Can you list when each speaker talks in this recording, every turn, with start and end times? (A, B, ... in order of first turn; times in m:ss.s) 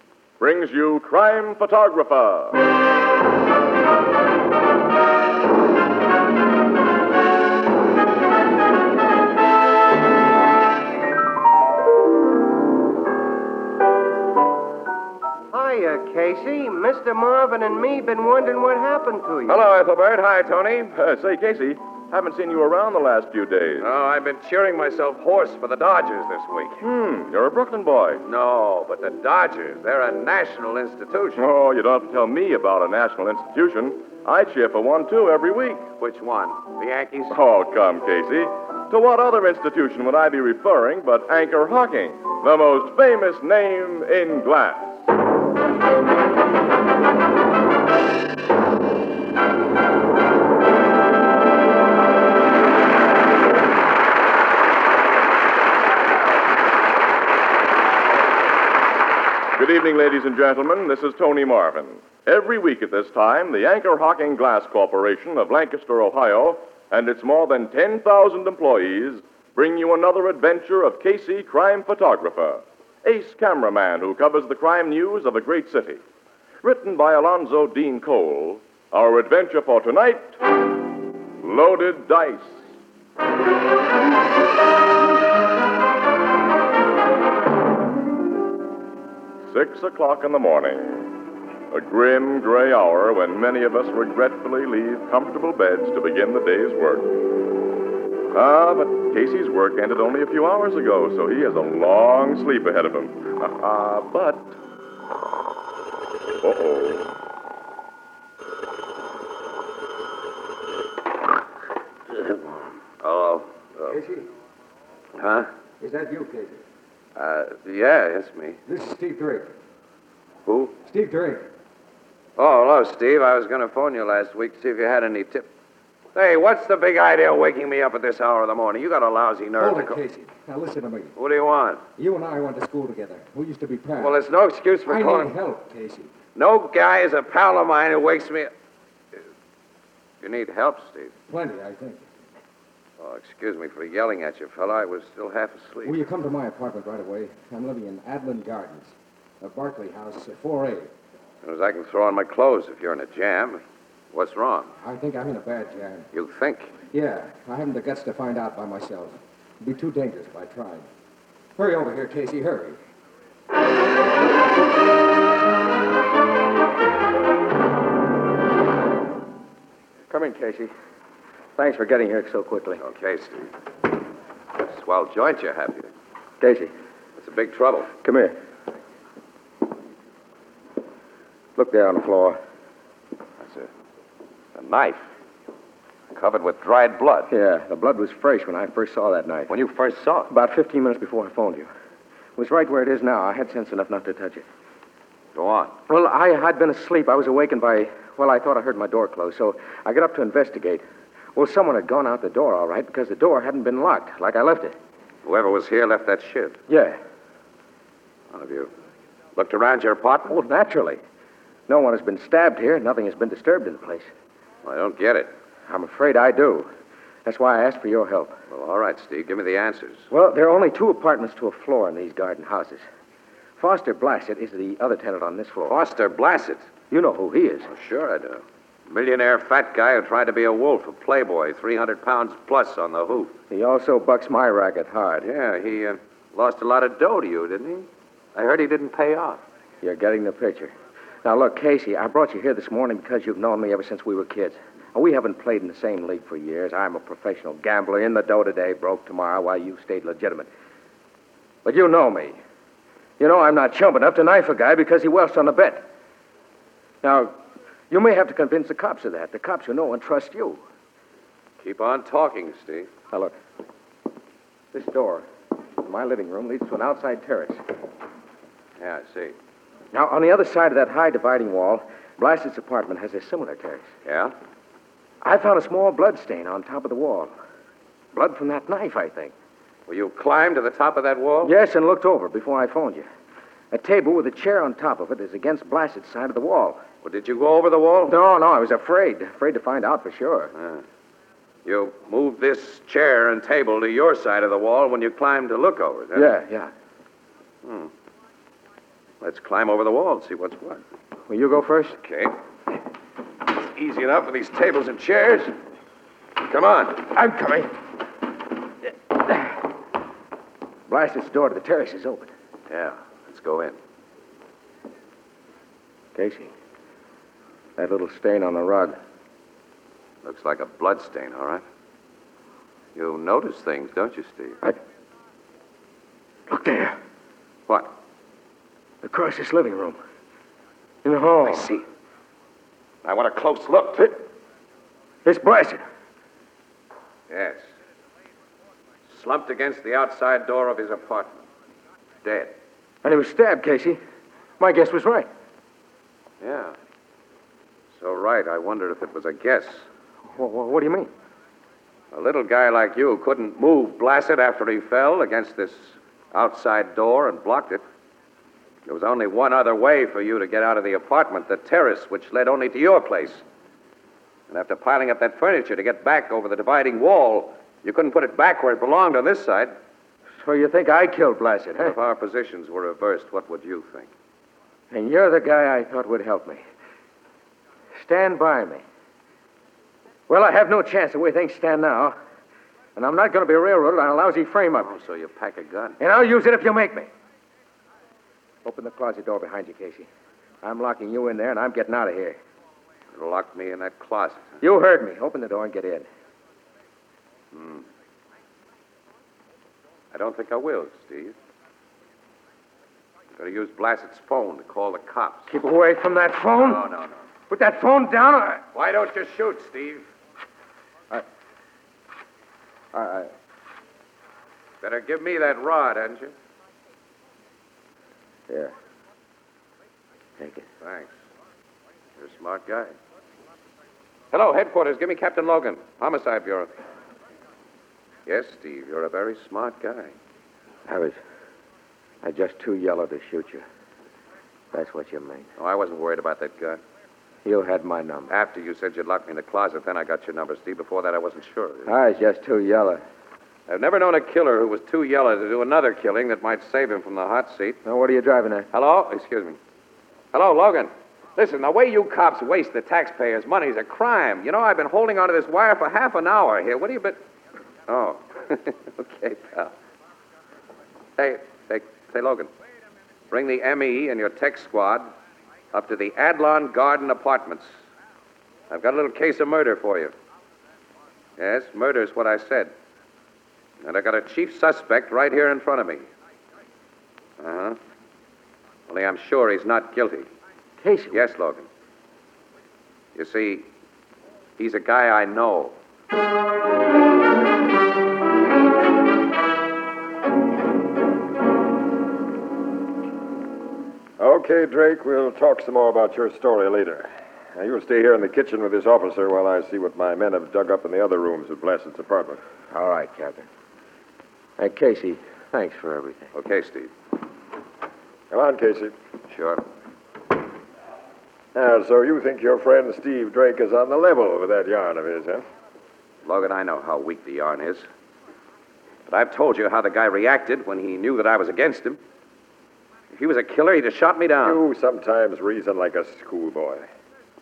0:00.4-0:02.6 A
0:15.5-0:19.6 B
0:19.5-0:20.9 C
0:20.9-0:23.9 A
0:23.8-0:26.8 C
0:26.8-0:28.2 A
0:28.2-0:31.4 C
0:31.4-0:35.9 A
0:36.0-0:37.4 C
0:37.3-0:45.0 A
0:59.6-1:16.0 A
1:16.6-1:20.4 A
1:21.4-1:22.6 A
1:29.5-1:31.1 A
1:31.7-1:37.1 A
1:38.3-1:44.6 A
1:46.4-1:47.1 A
1:53.0-1:53.9 C
1:53.9-1:54.2 D
1:55.2-1:55.5 C
1:55.8-1:56.6 D
1:57.2-1:58.6 C
1:58.7-1:59.5 D
2:00.5-2:00.8 C
2:00.8-2:01.4 D
2:02.4-2:05.5 C
2:06.2-2:10.0 C
2:09.6-2:11.1 D
2:11.2-2:11.8 C
2:12.0-2:14.2 D
2:14.0-2:15.3 C
2:14.9-2:16.1 D
2:16.4-2:18.5 C
2:20.2-2:21.2 C
2:21.3-2:22.0 D
2:23.0-2:26.0 C
2:25.8-2:30.9 D
2:31.4-2:33.6 C
2:34.1-2:34.7 C
2:34.8-2:36.1 D
2:36.1-2:36.8 C
2:36.9-2:40.9 D
2:41.6-2:42.8 D
2:50.1-2:50.7 E
2:51.6-2:52.8 E
2:52.8-2:53.5 C
2:54.6-2:55.9 C
2:56.4-2:56.7 E
2:57.2-2:57.9 C
2:58.0-2:58.3 E
3:01.6-3:02.4 E
3:03.4-3:03.7 C
3:04.6-3:05.1 C
3:06.1-3:07.3 C
3:07.3-3:09.5 E
3:09.5-3:10.3 C
3:10.3-3:11.7 E
3:12.4-3:14.4 E
3:15.3-3:15.8 C
3:15.9-3:20.8 E
3:21.4-3:24.8 E
3:25.2-3:26.6 C
3:26.7-3:27.0 E
3:28.3-3:28.7 C
3:29.4-3:30.4 C
3:30.3-3:31.0 E
3:31.7-3:34.1 E
3:34.6-3:35.3 C
3:35.7-3:36.7 E
3:37.3-3:38.3 E
3:38.5-3:40.1 C
3:40.1-3:42.8 E
3:43.6-3:45.8 E
3:45.7-3:46.7 C
3:46.9-3:47.7 E
3:47.7-3:53.4 C
3:53.5-3:55.3 E
3:55.2-3:59.4 C
3:59.8-4:00.7 E
4:01.2-4:10.5 E
4:11.6-4:12.4 E
4:13.2-4:15.8 E
4:17.0-4:17.3 E
4:17.9-4:20.6 E
4:21.6-4:22.9 C
4:24.7-4:25.2 E
4:25.8-4:27.6 E
4:28.8-4:29.4 C
4:29.9-4:33.9 E
4:34.0-4:34.4 C
4:35.2-4:37.3 E
4:38.1-4:39.3 E
4:39.9-4:41.5 C
4:41.4-4:43.1 E
4:43.7-4:46.8 E
4:47.0-4:48.2 C
4:48.1-4:50.5 E
4:50.6-4:50.8 C
4:51.6-4:56.3 C
4:56.2-4:56.7 E
4:57.6-4:57.9 C
4:59.2-5:00.8 C
5:01.3-5:02.0 E
5:01.9-5:02.4 C
5:03.5-5:05.6 C
5:06.4-5:07.1 C
5:07.1-5:07.7 E
5:10.9-5:12.3 E
5:12.7-5:13.8 C
5:16.2-5:16.5 E
5:17.8-5:19.0 E
5:20.2-5:21.6 C
5:23.0-5:24.6 C
5:26.5-5:27.0 E
5:27.7-5:28.0 C
5:29.0-5:30.0 E
5:31.0-5:31.7 E
5:31.4-5:31.8 C
5:33.0-5:34.2 C
5:35.2-5:35.8 E
5:37.3-5:37.6 C
5:39.1-5:41.4 C
5:42.2-5:42.6 C
5:43.0-5:44.0 E
5:44.6-5:45.3 E
5:46.4-5:46.8 C
5:47.9-5:49.9 C
5:50.3-5:51.1 E
5:52.1-5:57.8 C
5:58.9-6:03.4 C
6:04.5-6:09.7 C
6:10.4-6:12.0 E
6:11.8-6:14.1 C
6:14.9-6:16.6 E
6:18.0-6:18.8 E
6:20.3-6:22.2 E
6:23.0-6:24.9 E
6:24.8-6:26.0 C
6:26.0-6:27.1 E
6:28.6-6:30.1 E
6:30.6-6:32.4 E
6:33.1-6:34.6 C
6:34.6-6:36.1 E
6:37.5-6:37.9 C
6:40.1-6:41.4 C
6:43.4-6:45.5 C
6:45.5-6:46.8 E
6:46.6-6:47.3 C
6:47.5-6:48.6 E
6:48.7-6:50.1 C
6:52.9-6:53.3 E
6:54.8-6:56.3 C
7:00.4-7:00.6 E
7:00.8-7:01.2 C
7:02.2-7:03.0 C
7:04.3-7:06.7 C
7:08.3-7:10.1 C
7:10.9-7:11.2 E
7:12.2-7:13.6 E
7:14.7-7:15.5 E
7:15.6-7:16.8 C
7:17.4-7:18.3 E
7:18.3-7:21.9 C
7:21.9-7:23.0 E
7:23.7-7:27.8 C
7:27.8-7:28.7 E
7:28.7-7:29.6 C
7:30.3-7:37.2 C
7:37.9-7:39.7 C
7:41.2-7:42.5 C
7:43.3-7:45.1 C
7:45.7-7:47.8 C
7:48.7-7:50.1 C
7:51.4-7:52.7 C
7:53.8-7:56.1 C
7:57.4-7:57.8 C
7:58.9-8:00.3 C
8:00.8-8:01.2 E
8:01.1-8:01.7 C
8:03.2-8:03.7 C
8:04.6-8:05.8 C
8:14.2-8:22.4 F
8:22.7-8:23.5 E
8:24.6-8:26.3 E
8:26.3-8:26.9 C
8:28.3-8:28.9 F
8:29.3-8:29.6 C
8:31.6-8:35.4 F
8:36.2-8:37.9 C
8:39.1-8:42.0 C
8:43.1-8:44.6 C
8:44.4-8:46.8 F